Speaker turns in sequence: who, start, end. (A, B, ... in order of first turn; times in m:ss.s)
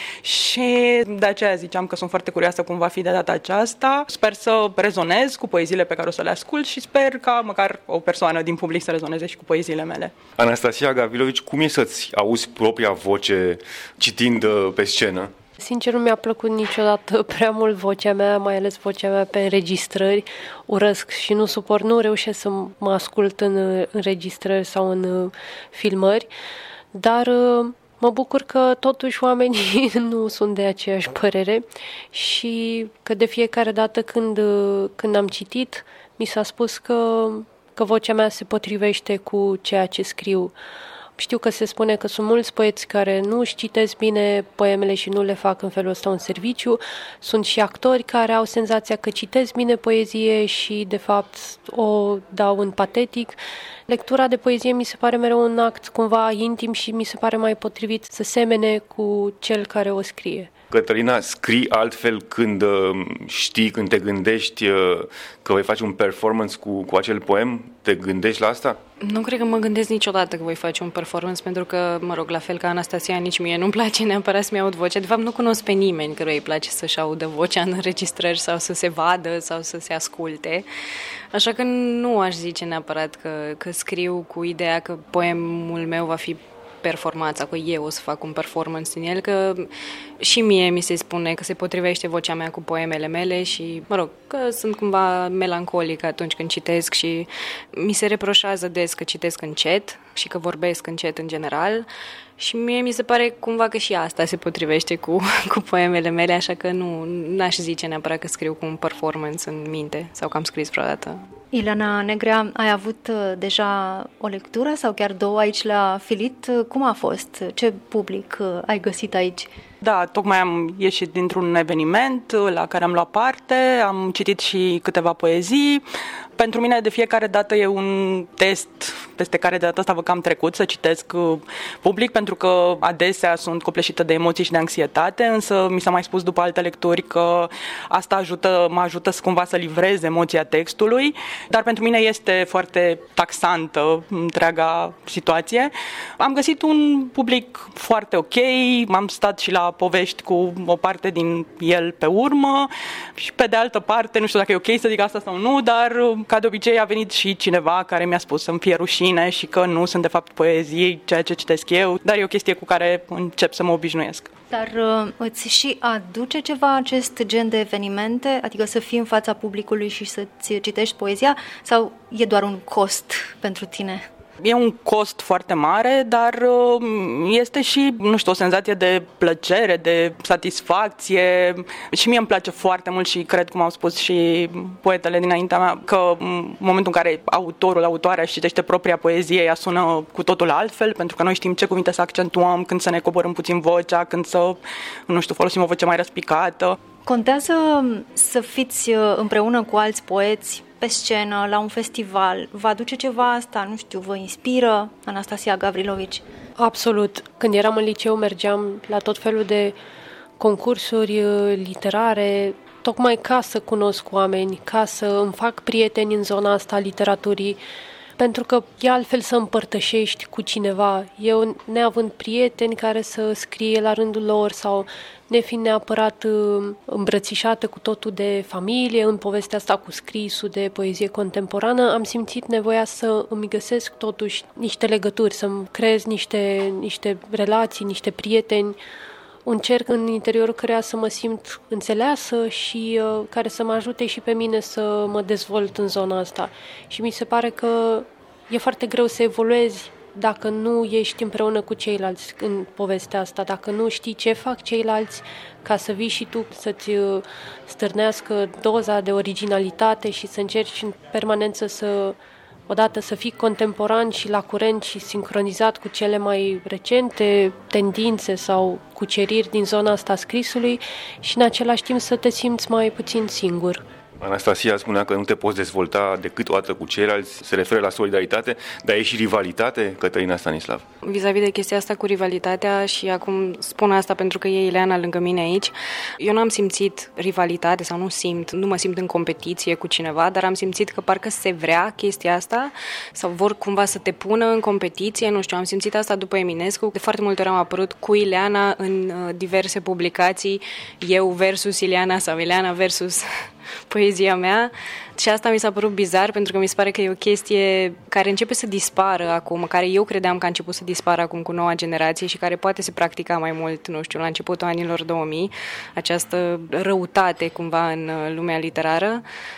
0:00.2-0:10.1 A
0:10.4-0:15.3 B
0:15.6-0:26.3 C
0:26.9-0:40.5 C
0:41.2-1:00.5 C
1:00.7-1:08.8 B
1:09.0-1:20.6 D
1:21.3-1:29.7 D
1:30.2-1:41.8 D
1:42.4-1:51.2 D
1:51.5-1:59.5 E
1:59.8-2:05.8 A
2:06.4-2:44.3 A
2:44.5-2:54.0 E
2:54.4-3:16.8 A
3:17.0-3:26.2 E
3:26.6-3:29.8 C
3:30.4-3:37.6 C
3:38.2-3:58.8 C
3:59.4-4:22.2 C
4:22.7-4:33.8 C
4:34.2-4:40.8 B
4:41.0-5:03.3 D
5:03.9-5:19.2 D